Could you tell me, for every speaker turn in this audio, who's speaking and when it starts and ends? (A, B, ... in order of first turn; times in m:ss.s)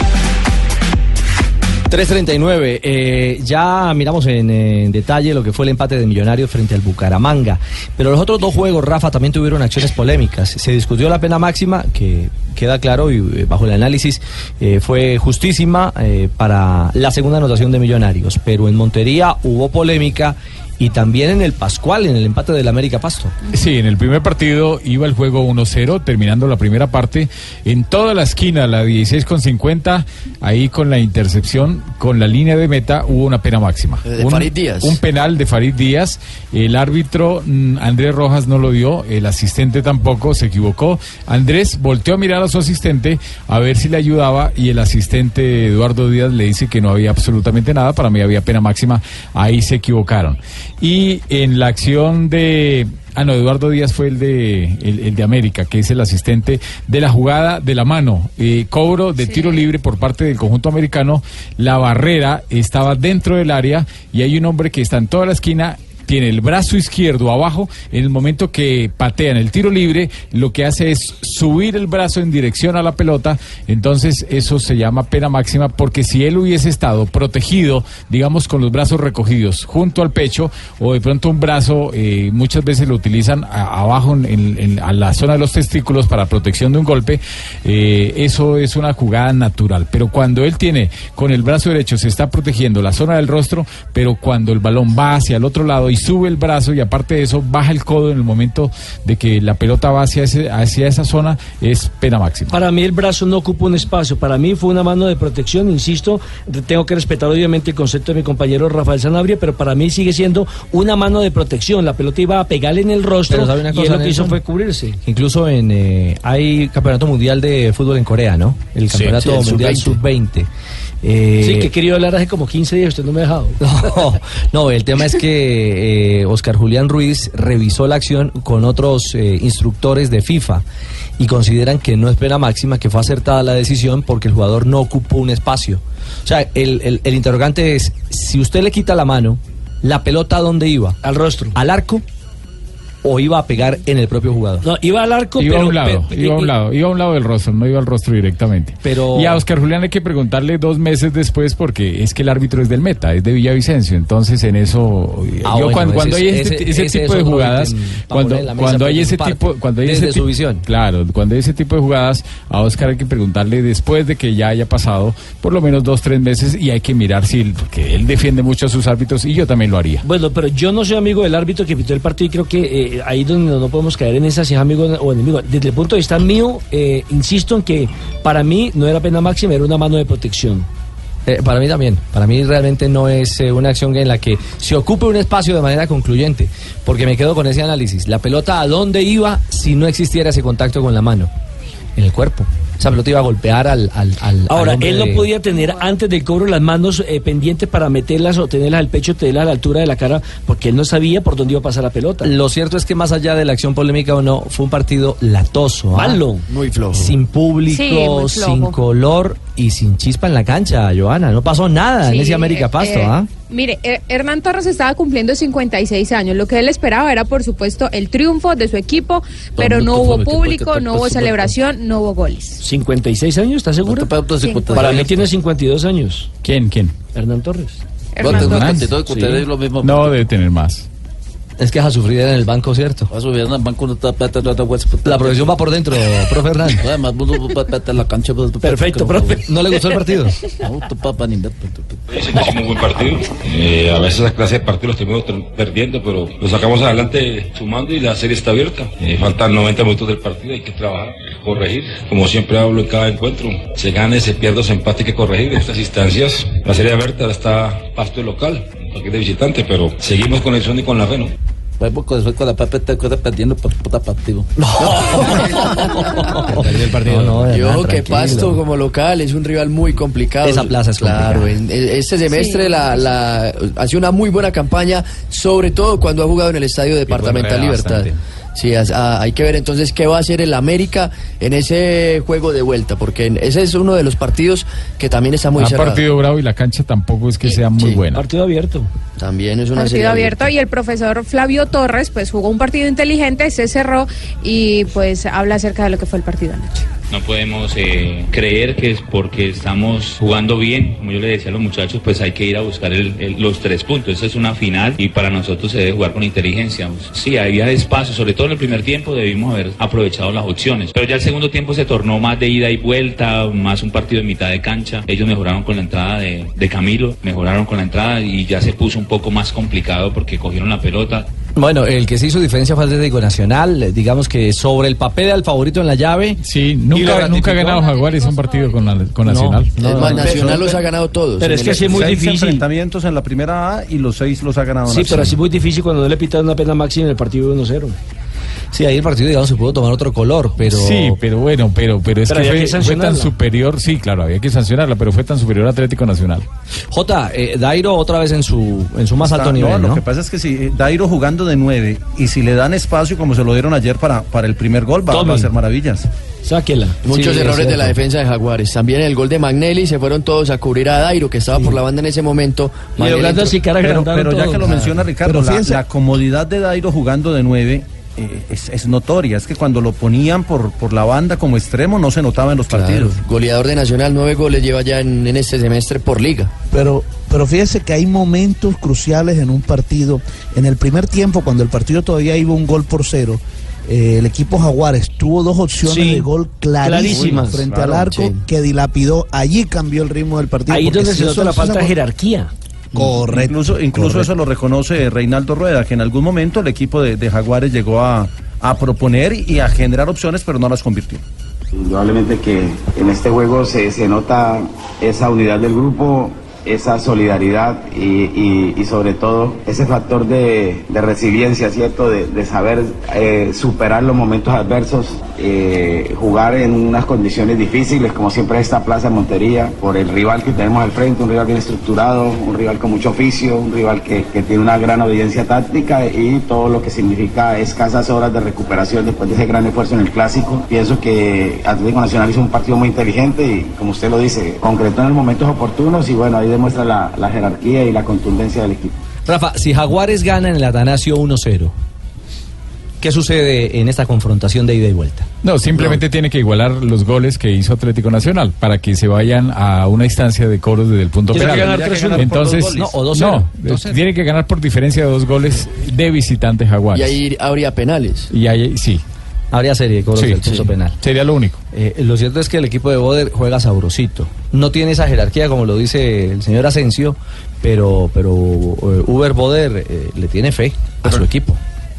0:01.9-0:23.4 A
0:23.5-1:42.6 B
0:34.0-0:35.0 C
0:59.2-0:59.6 D
1:42.5-1:55.0 E
1:53.3-1:54.4 A
1:55.0-2:00.5 A
1:59.1-2:00.0 C
2:01.0-2:01.7 A
2:01.4-2:03.6 E
2:03.6-2:10.6 A
2:11.2-2:21.0 A
2:21.0-2:21.6 E
2:21.6-2:22.0 A
2:23.0-2:24.6 A
2:24.6-2:26.5 E
2:25.4-2:50.0 B
2:28.8-2:29.4 A
2:35.4-2:40.6 A
2:50.0-3:00.7 E
3:01.3-3:11.3 A
3:12.0-3:15.3 A
3:14.5-3:22.4 E
3:22.2-3:26.2 A
3:25.9-3:26.4 E
3:26.5-3:27.2 C
3:26.9-3:33.3 A
3:27.7-3:28.8 D
3:32.0-3:42.6 D
3:39.6-3:41.6 F
3:42.6-3:44.2 E
3:43.8-3:45.3 F
3:44.4-3:44.7 D
3:44.7-3:46.3 E
3:46.4-3:47.0 B
3:47.1-3:47.8 E
3:48.1-3:48.8 D
3:48.2-3:50.2 F
3:48.2-3:49.0 B
3:49.1-3:49.5 E
3:49.8-3:50.9 B
3:51.6-3:53.1 A
3:53.1-3:55.7 F
3:55.0-3:56.8 A
3:56.7-3:59.4 F
3:58.6-3:59.4 E
3:59.4-4:00.4 A
4:00.6-4:02.1 F
4:02.2-4:21.3 G
4:21.8-4:24.5 F
4:24.6-4:28.6 A
4:26.4-4:27.4 F
4:27.5-4:46.0 C
4:30.4-4:31.5 A
4:32.3-4:33.0 D
4:45.6-4:48.2 B
4:47.8-4:48.0 C
4:48.1-4:48.9 E
4:49.2-4:50.5 C
4:49.8-4:56.9 D
4:57.1-5:21.3 H
5:21.6-5:26.4 A
5:26.4-5:30.5 B
5:27.0-5:27.7 A
5:27.8-5:29.1 D
5:29.2-5:30.4 A
5:29.8-5:32.1 C
5:30.0-5:30.8 I
5:31.4-5:32.6 E
5:31.8-5:35.4 I
5:34.9-5:38.0 E
5:38.7-5:41.2 A
5:40.6-5:46.5 B
5:42.3-5:43.3 E
5:46.9-5:50.0 A
5:49.2-5:56.1 I
5:55.1-5:55.5 E
5:56.4-5:57.4 E
5:57.0-6:03.5 C
5:57.4-5:57.8 A
6:03.0-6:04.9 E
6:03.7-6:13.2 I
6:05.2-6:05.8 J
6:12.7-6:16.5 C
6:16.7-6:31.9 J
6:25.8-6:26.3 E
6:26.8-6:27.7 E
6:27.1-6:28.1 I
6:30.7-6:32.5 E
6:32.9-6:34.3 J
6:33.0-6:41.2 I
6:41.8-7:19.0 K
7:19.3-7:21.8 A
7:23.0-7:25.3 A
7:25.4-7:37.2 B
7:31.3-7:32.3 E
7:31.4-7:33.0 I
7:32.6-7:33.5 A
7:36.9-7:38.3 C
7:38.3-7:39.0 B
7:39.5-7:41.0 A
7:40.2-7:41.6 B
7:41.7-7:51.6 A